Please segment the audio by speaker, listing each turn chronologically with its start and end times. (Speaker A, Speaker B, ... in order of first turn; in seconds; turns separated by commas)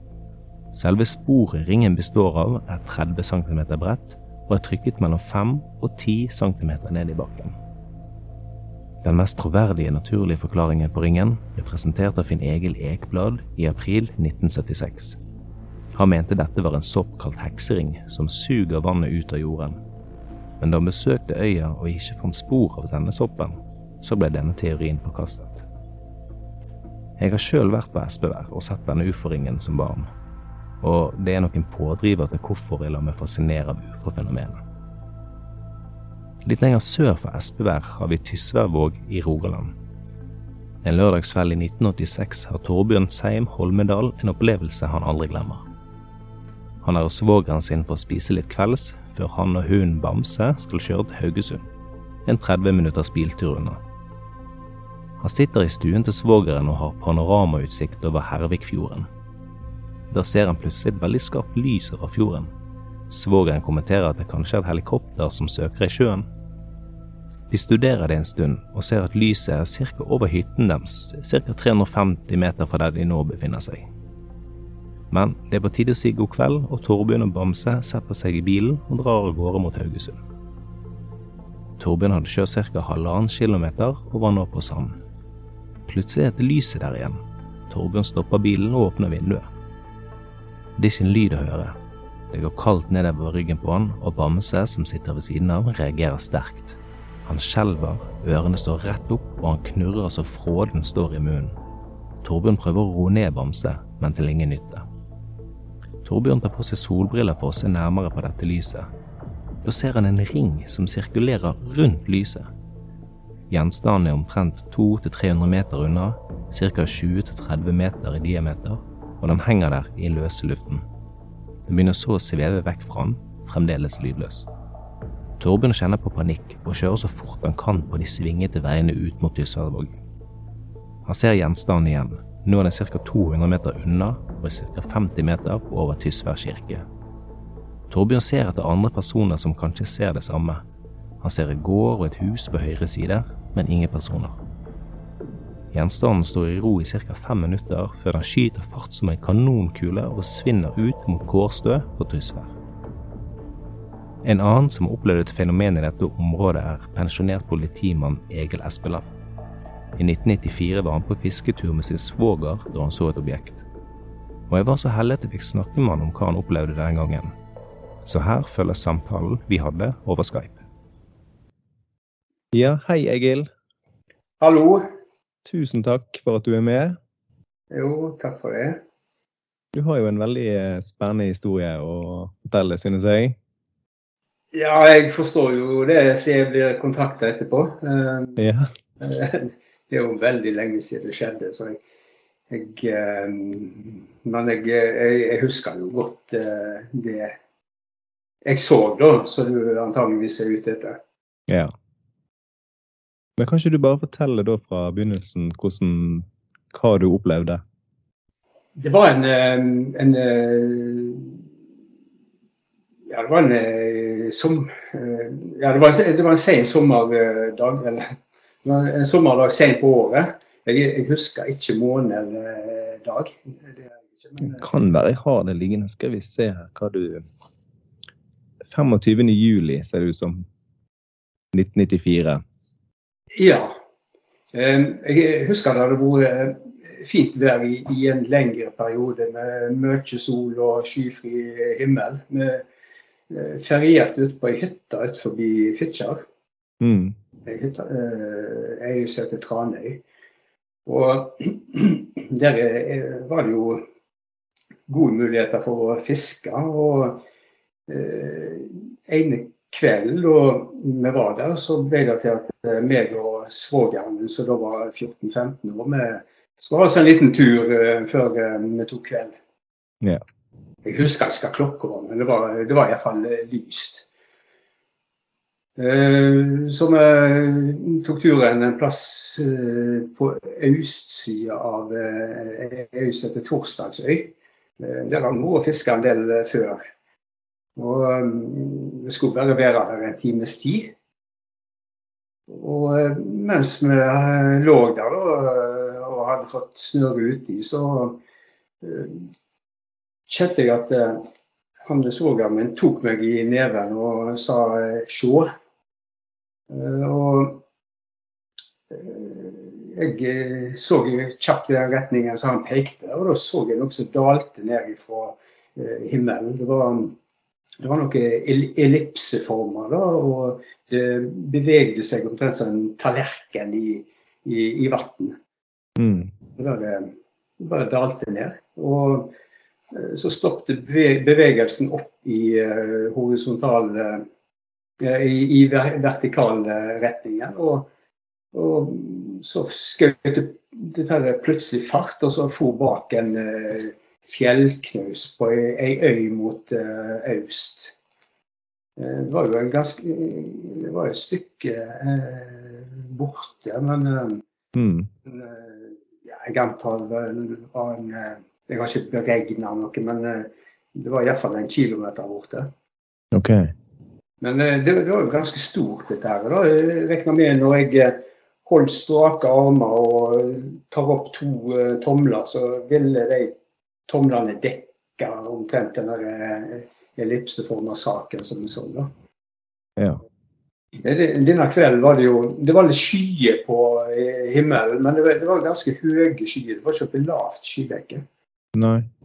Speaker A: 0.7-7.5, Speaker A: 9.0-15.2, Speaker A: 15.9-19.8, Speaker A: 20.6-25.7, Speaker A: 27.2-30.1, Speaker A: 30.8-34.6, Speaker A: 36.5-39.7, Speaker A: 40.8-45.6, Speaker A: 46.8-51.7, Speaker A: 52.3-53.8, Speaker A: 55.2-59.1, Speaker A: 60.1-62.5, Speaker A: 63.1-66.2, Speaker A: 67.5-73.9, Speaker A: 75.1-80.2, Speaker A: 81.8-85.0, Speaker A: 85.9-87.2, Speaker A: 87.7-89.5, Speaker A: 90.8-91.8, Speaker A: 92.3-101.5, Speaker A: 102.2-104.8, Speaker A: 106.0-108.9, Speaker A: 109.7-112.5, Speaker A: 113.5-120.8, Speaker A: 121.7-124.5, Speaker A: 125.4-130.0, Speaker A: 131.1-136.8, Speaker A: 137.9-140.6, Speaker A: 141.2-144.4, Speaker A: 145.7-152.6, Speaker A: 154.2-159.1, Speaker A: 160.0-163.7, Speaker A: 164.5-167.3, Speaker A: 168.1-170.6, Speaker A: 172.5-173.5, Speaker B: 174.4-174.8, Speaker A: 175.4-177.0, Speaker B: 177.7-178.8, Speaker A: 179.7-183.4, Speaker B: 184.5-188.4, Speaker A: 188.4-188.6, Speaker B: 189.0-191.8, Speaker B: 192.5-197.4, Speaker B: 198.4-201.0, Speaker A: 203.4-207.6, Speaker B: 208.8-211.4, Speaker B: 213.1-218.1, Speaker B: 218.6-224.6, Speaker A: 224.4-227.3, Speaker A: 228.7-230.4, Speaker A: 231.5-232.4, Speaker B: 233.3-233.8, Speaker B: 234.5-242.7, Speaker B: 243.3-246.2, Speaker A: 246.8-247.1, Speaker B: 247.5-250.0, Speaker B: 250.9-253.8, Speaker B: 254.9-257.2, Speaker B: 257.9-269.3, Speaker B: 270.9-274.1, Speaker B: 275.8-286.8, Speaker B: 287.8-290.9, Speaker B: 292.5-298.2, Speaker B: 298.8-299.3, Speaker B: 300.3-301.3, Speaker B: 301.9-305.5, Speaker B: 306.7-307.6, Speaker B: 308.9-317.2, Speaker B: 317.8-325.4, Speaker A: 326.0-326.3, Speaker B: 326.6-329.3, Speaker B: 329.9-334.2, Speaker B: 335.0-337.9, Speaker B: 338.5-347.9, Speaker B: 349.0-354.4, Speaker A: 354.8-355.1, Speaker B: 355.2-362.7, Speaker A: 363.3-363.7, Speaker B: 364.4-373.6, Speaker B: 374.1-379.1, Speaker B: 381.0-388.2, Speaker A: 388.8-389.1